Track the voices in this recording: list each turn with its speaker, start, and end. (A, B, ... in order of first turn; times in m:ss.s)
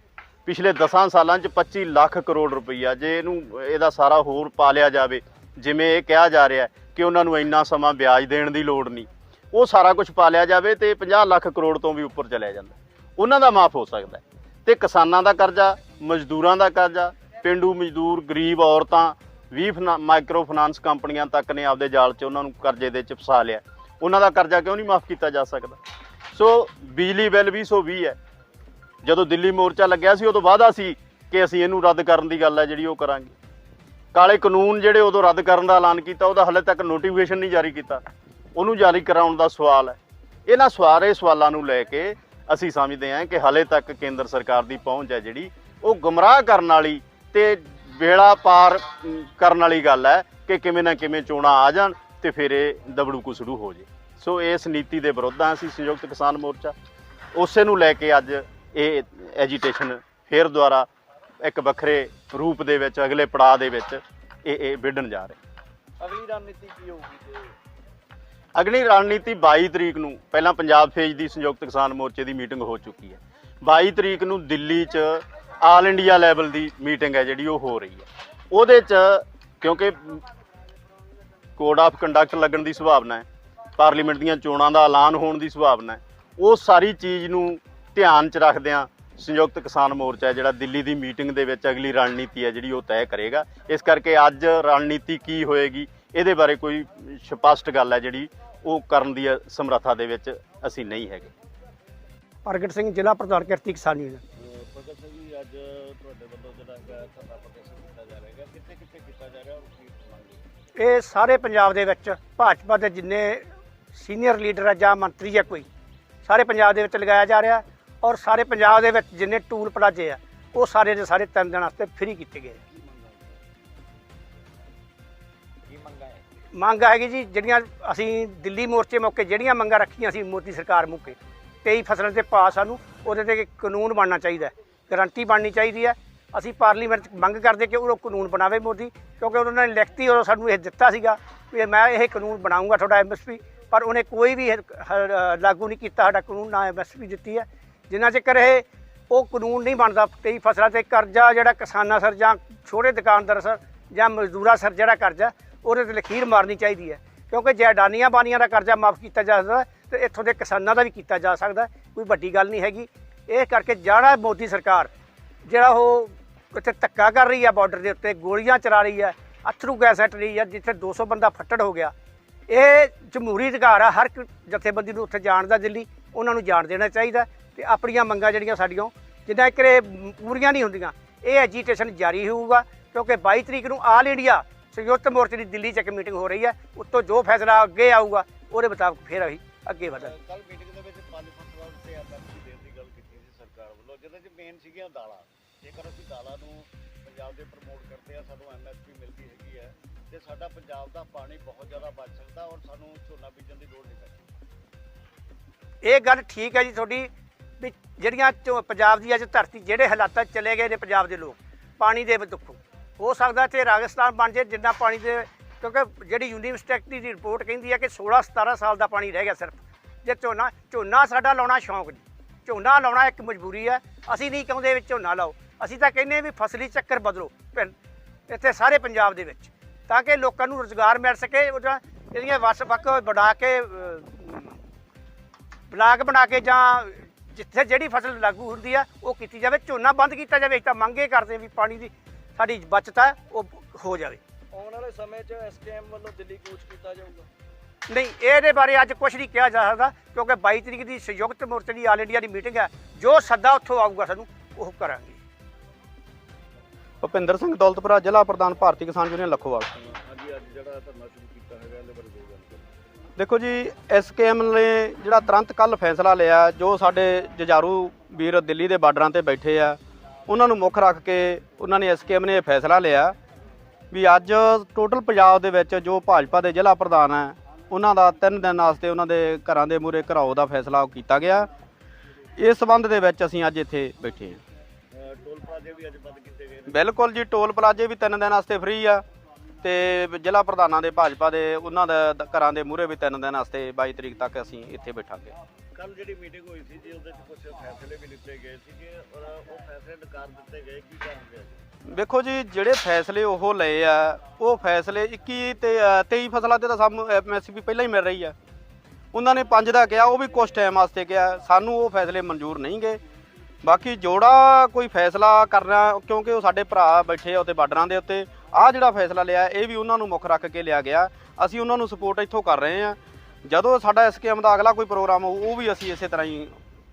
0:00.5-0:25.8 A
0:26.3-0:28.2 A
0:29.0-0:33.3 A
0:34.1-0:38.0 A
0:38.6-0:56.7 A
0:57.3-1:00.9 A
1:01.4-1:05.4 A
1:06.0-1:07.0 B
1:06.0-1:07.3 C
1:08.6-1:20.2 A
1:21.6-1:23.3 A
1:23.8-1:41.3 A
1:42.4-1:44.2 D
1:44.4-1:50.4 C
1:50.8-1:55.7 D
1:56.2-2:02.6 D
2:02.6-2:03.4 C
2:05.7-2:06.2 C
2:06.5-2:44.9 D
2:45.5-2:51.9 D
2:52.5-3:10.1 D
3:09.9-3:24.3 C
3:25.8-3:47.8 D
3:48.3-3:54.6 D
3:55.7-4:04.2 D
4:04.5-4:07.3 B
4:07.9-4:15.2 D
4:17.0-4:19.7 E
4:19.7-4:22.7 C
4:23.2-4:33.2 E
4:33.9-4:41.5 E
4:42.4-4:44.4 E
4:44.9-4:46.8 C
4:46.7-4:49.0 E
4:49.6-4:55.4 E
4:55.7-5:01.7 C
5:01.8-5:08.4 E
5:09.1-5:13.0 E
5:13.6-5:26.6 E